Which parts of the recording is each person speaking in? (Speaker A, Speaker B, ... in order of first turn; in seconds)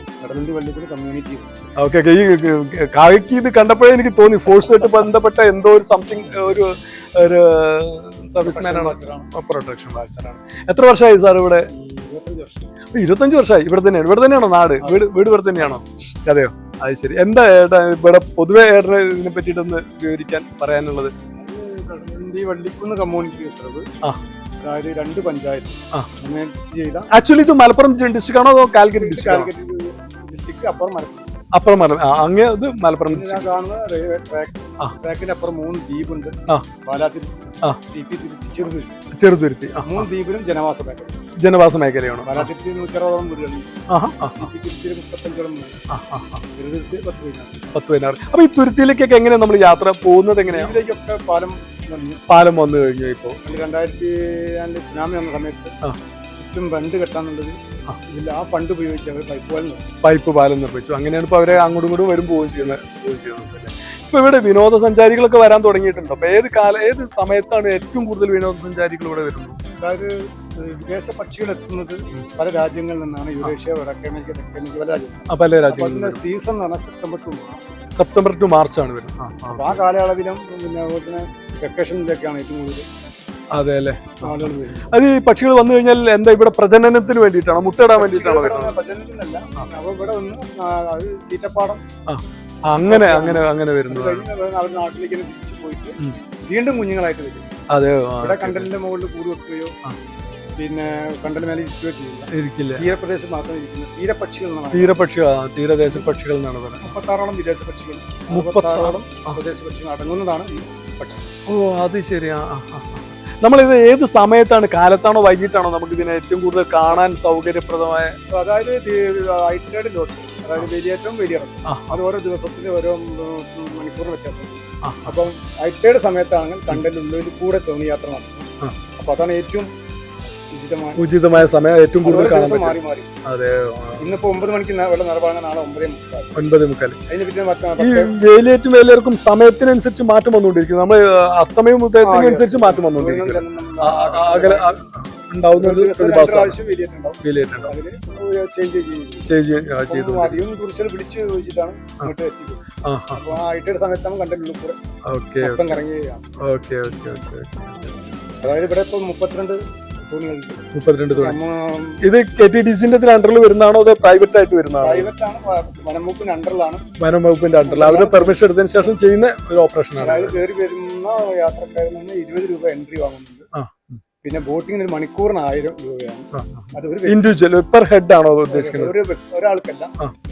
Speaker A: 0.2-1.6, 8.4-9.3, 11.7-12.7, 14.8-15.8, 21.3-23.9, 24.6-27.1, 28.9-31.5, 33.1-38.9, 39.8-41.2, 42.2-45.8, 46.5-47.7, 50.5-52.2, 53.4-55.7, 56.4-59.8, 69.8-77.9, 79.5-82.9, 84.2-84.9, 87.9-91.8, 92.9-96.0, 96.5-97.5, 98.2-99.8, 100.6-105.1, 106.8-111.2, 118.3-128.4, 129.0-129.7, 130.5-131.1, 132.0-133.1, 134.0-136.4, 137.1-138.2, 142.0-144.8, 145.6-149.3, 149.9-152.6, 153.1-154.8, 155.4-156.2, 158.4-162.0, 164.8-166.9, 167.6-168.4, 170.0-173.5, 174.2-177.2, 178.5-179.9
Speaker B: 1.8-11.7, 12.9-21.1, 27.1-29.5, 31.5-33.5, 39.1-40.0, 41.4-42.5, 43.9-44.5, 45.9-46.4, 47.7-50.8, 52.3-53.4, 60.0-69.6, 75.3-76.2, 78.0-79.8, 83.5-88.8, 92.1-94.2, 97.7-98.7, 102.3-102.9, 104.7-106.9, 108.3-109.4, 111.5-118.2, 121.7-122.0, 124.8-125.1, 131.0-134.1, 136.3-137.0, 137.8-146.6, 147.2-147.8, 149.3-150.4, 152.8-153.4, 155.1-155.8, 156.4-157.9, 160.7-161.4, 162.0-165.1, 167.0-170.4, 173.6-174.0, 176.3-178.9